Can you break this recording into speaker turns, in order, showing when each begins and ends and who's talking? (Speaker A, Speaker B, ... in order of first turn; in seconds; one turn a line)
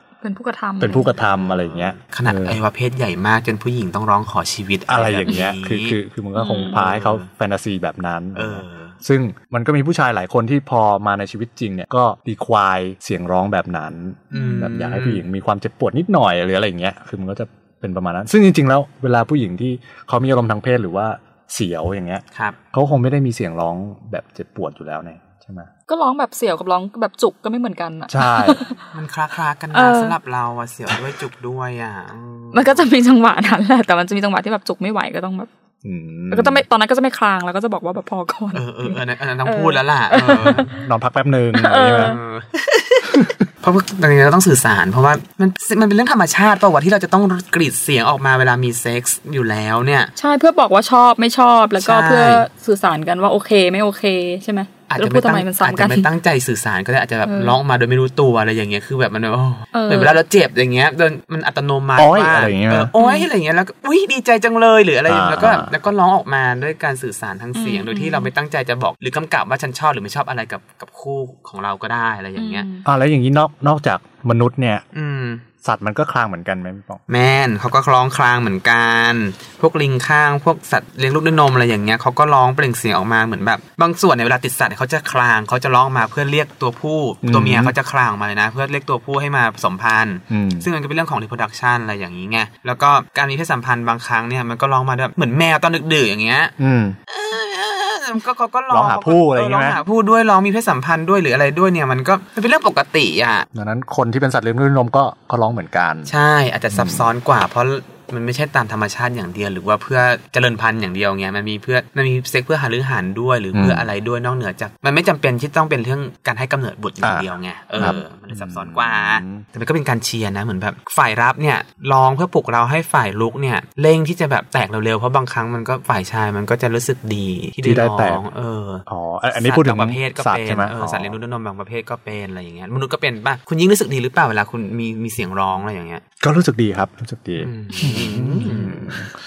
Speaker A: 0.2-1.1
Speaker B: 0.8-2.6
Speaker C: 1.2-6.0
Speaker B: 4.9-25.7
Speaker A: 6.3-6.8
Speaker C: 6.6-7.3
Speaker C: 8.3-9.0
Speaker A: 14.3-14.7
Speaker C: 14.3-15.2
Speaker A: 25.9-28.8
Speaker B: 28.1-28.6
Speaker C: 28.9-32.9
Speaker A: 29.7-30.2
Speaker A: 32.5-35.5
Speaker B: 35.8-36.6
Speaker A: 36.3-40.8
Speaker C: 38.5-40.7
Speaker B: 40.6-42.2
Speaker A: 41.5-42.2
Speaker C: 42.0-50.1
Speaker B: 43.1-43.4
Speaker A: 50.2-56.1
Speaker C: 51.8-52.5
Speaker C: 54.9-72.7
Speaker A: 57.3-57.6
Speaker A: 59.7-60.2
Speaker B: 62.0-62.9
Speaker A: 63.0-63.3
Speaker B: 65.1-65.7
Speaker A: 67.5-68.3
Speaker A: 72.4-72.9
Speaker B: 72.8-74.8
Speaker C: 74.9-75.4
Speaker B: 75.6-77.0
Speaker C: 77.1-96.5
Speaker B: 87.2-87.8
Speaker B: 90.3-90.7
Speaker B: 96.6-97.0
Speaker C: 97.1-103.5
Speaker B: 98.7-99.8
Speaker B: 103.5-106.1
Speaker C: 106.1-136.0
Speaker B: 106.7-107.1
Speaker B: 113.5-113.9
Speaker B: 117.0-119.4
Speaker B: 127.6-128.2
Speaker B: 128.9-131.2
Speaker B: 136.2-139.1
Speaker C: 137.4-139.0